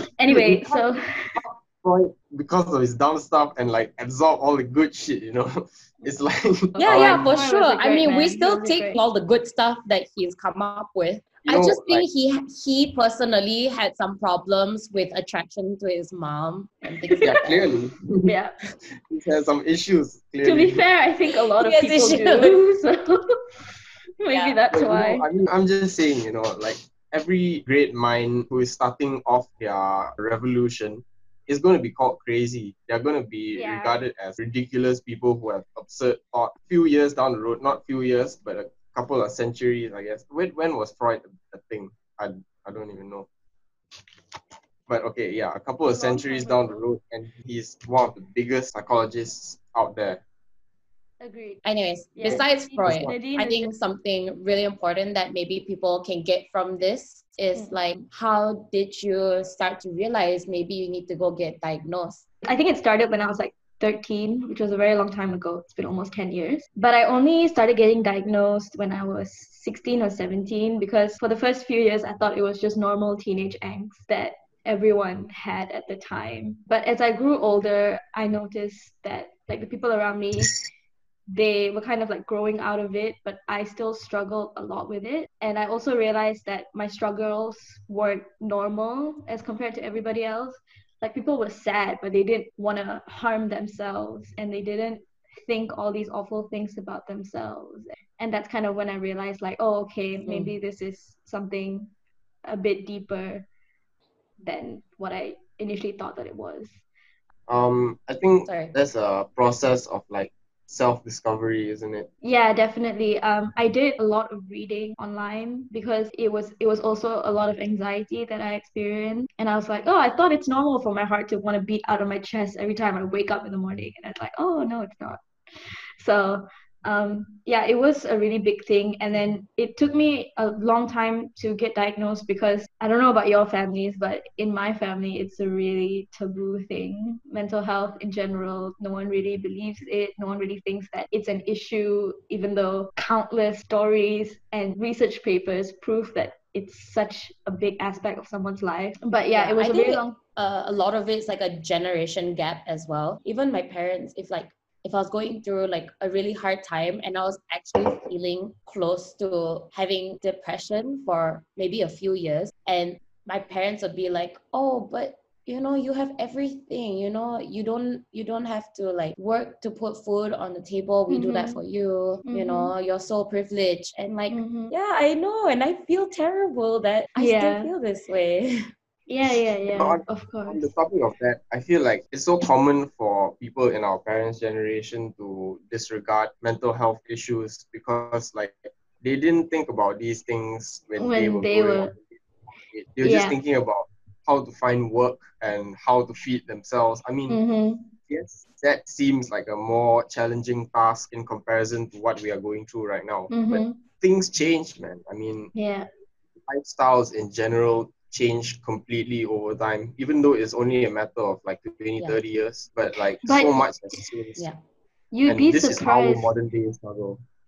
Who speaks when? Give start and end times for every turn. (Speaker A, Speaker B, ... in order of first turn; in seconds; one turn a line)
Speaker A: 0.2-1.4
Speaker B: 0.3-0.8
Speaker B: 1.4-7.5
Speaker A: 6.8-9.0
Speaker C: 6.8-17.7
Speaker B: 11.4-12.1
Speaker A: 17.0-17.5
Speaker B: 17.2-18.3
Speaker A: 18.2-18.5
Speaker B: 19.1-20.9
Speaker A: 20.4-23.2
Speaker C: 21.6-22.6
Speaker A: 24.2-25.3
Speaker C: 24.3-24.6
Speaker B: 24.7-43.3
Speaker A: 33.5-34.0
Speaker B: 44.9-50.2
Speaker A: 45.9-46.8
Speaker A: 51.2-51.6
Speaker C: 51.6-62.2
Speaker A: 52.2-53.7
Speaker B: 52.3-53.1
Speaker A: 62.4-80.5
Speaker A: 81.3-101.9
Speaker C: 100.2-100.5
Speaker A: 102.5-103.5
Speaker A: 104.4-106.8
Speaker B: 107.5-112.1
Speaker C: 108.5-108.7
Speaker A: 112.2-125.2
Speaker A: 126.0-150.2
Speaker C: 149.3-178.7
Speaker A: 171.1-171.6
Speaker A: 172.3-172.7
Speaker A: 174.3-174.7
Speaker A: 177.2-177.7
Speaker A: 179.1-180.7
Speaker B: 179.8-192.2
Speaker A: 191.0-191.9
Speaker B: 192.7-197.4
Speaker A: 193.0-193.4
Speaker A: 197.3-197.9
Speaker B: 198.1-205.5
Speaker A: 203.3-203.8
Speaker A: 205.6-205.9
Speaker B: 206.5-214.5
Speaker A: 213.2-213.9
Speaker A: 215.1-216.3
Speaker B: 215.3-217.2